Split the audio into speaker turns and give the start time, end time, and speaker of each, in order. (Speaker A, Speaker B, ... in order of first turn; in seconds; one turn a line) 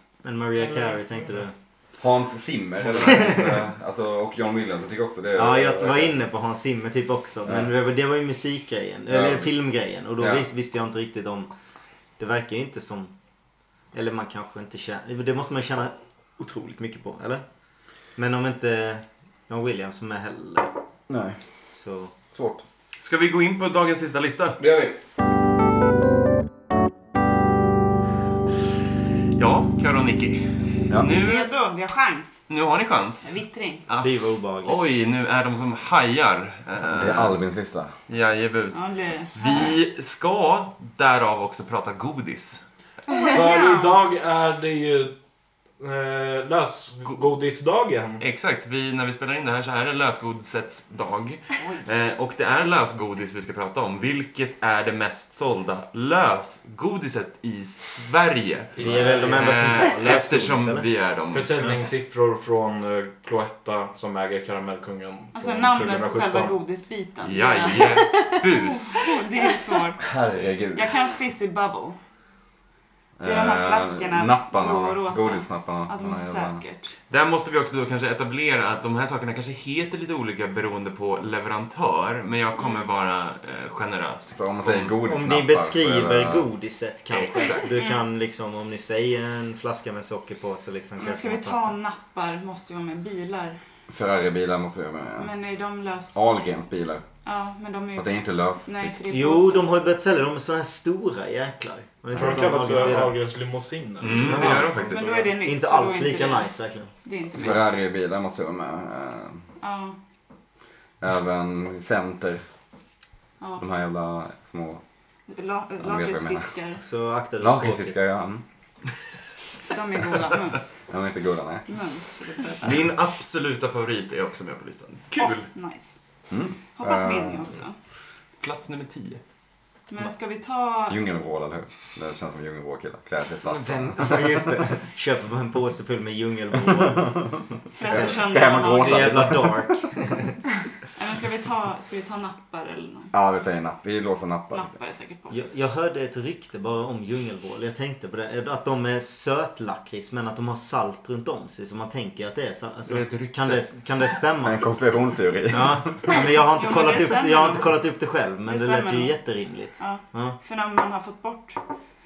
Speaker A: 0.2-1.5
Speaker B: 0.6-1.0
Speaker C: 2.0-6.2
Speaker A: 3.1-3.4
Speaker A: 5.4-11.5
Speaker C: 7.5-7.7
Speaker C: 9.1-9.6
Speaker C: 10.2-10.4
Speaker A: 12.2-13.1
Speaker A: 13.9-17.4
Speaker A: 18.2-20.7
Speaker C: 21.1-21.4
Speaker A: 21.7-22.1
Speaker C: 22.3-22.6
Speaker D: 23.0-24.6
Speaker C: 24.6-25.0
Speaker D: 29.4-31.5
Speaker E: 31.0-32.4
Speaker D: 32.5-33.4
Speaker E: 33.2-33.9
Speaker D: 33.9-37.4
Speaker A: 34.0-34.9
Speaker C: 36.9-37.9
Speaker D: 38.1-38.8
Speaker E: 38.7-39.7
Speaker D: 39.4-42.6
Speaker E: 43.1-44.0
Speaker B: 43.3-45.1
Speaker B: 45.8-48.2
Speaker D: 48.2-61.6
Speaker B: 58.8-59.7
Speaker A: 58.8-60.9
Speaker B: 61.3-66.6
Speaker E: 65.3-70.1
Speaker D: 67.2-69.2
Speaker C: 70.0-71.0
Speaker E: 70.7-72.0
Speaker C: 73.2-76.6
Speaker E: 73.2-76.9
Speaker D: 77.1-85.0
Speaker C: 84.3-86.5
Speaker A: 85.1-91.8
Speaker D: 87.1-87.8
Speaker E: 87.8-88.0
Speaker E: 91.0-93.6
Speaker C: 93.9-95.3
Speaker E: 95.2-96.2
Speaker C: 96.2-97.0
Speaker E: 97.2-99.8
Speaker C: 98.0-99.4
Speaker A: 99.1-103.2
Speaker B: 102.1-105.3
Speaker D: 104.0-105.3
Speaker A: 104.2-104.7
Speaker E: 104.9-106.5
Speaker A: 105.4-106.9
Speaker E: 107.0-107.7
Speaker C: 107.4-109.5
Speaker E: 109.6-110.0
Speaker C: 111.0-112.4
Speaker C: 113.6-114.8
Speaker E: 115.3-116.8
Speaker C: 115.8-116.5
Speaker A: 116.8-118.0
Speaker C: 117.4-118.4
Speaker E: 119.7-120.7
Speaker C: 120.9-121.7
Speaker E: 121.7-122.9
Speaker D: 122.6-125.5
Speaker E: 125.2-125.9
Speaker C: 126.3-127.5
Speaker E: 126.7-127.8
Speaker D: 128.4-129.2
Speaker E: 129.9-131.2
Speaker C: 130.9-134.6
Speaker A: 133.5-140.3
Speaker E: 137.7-139.4
Speaker C: 137.8-139.8
Speaker E: 141.0-143.1
Speaker C: 143.1-144.7
Speaker E: 144.5-145.6
Speaker A: 145.3-154.7
Speaker D: 152.9-153.7
Speaker C: 154.4-156.0
Speaker A: 155.5-160.4
Speaker E: 156.1-157.8
Speaker E: 158.5-159.1
Speaker E: 159.8-161.6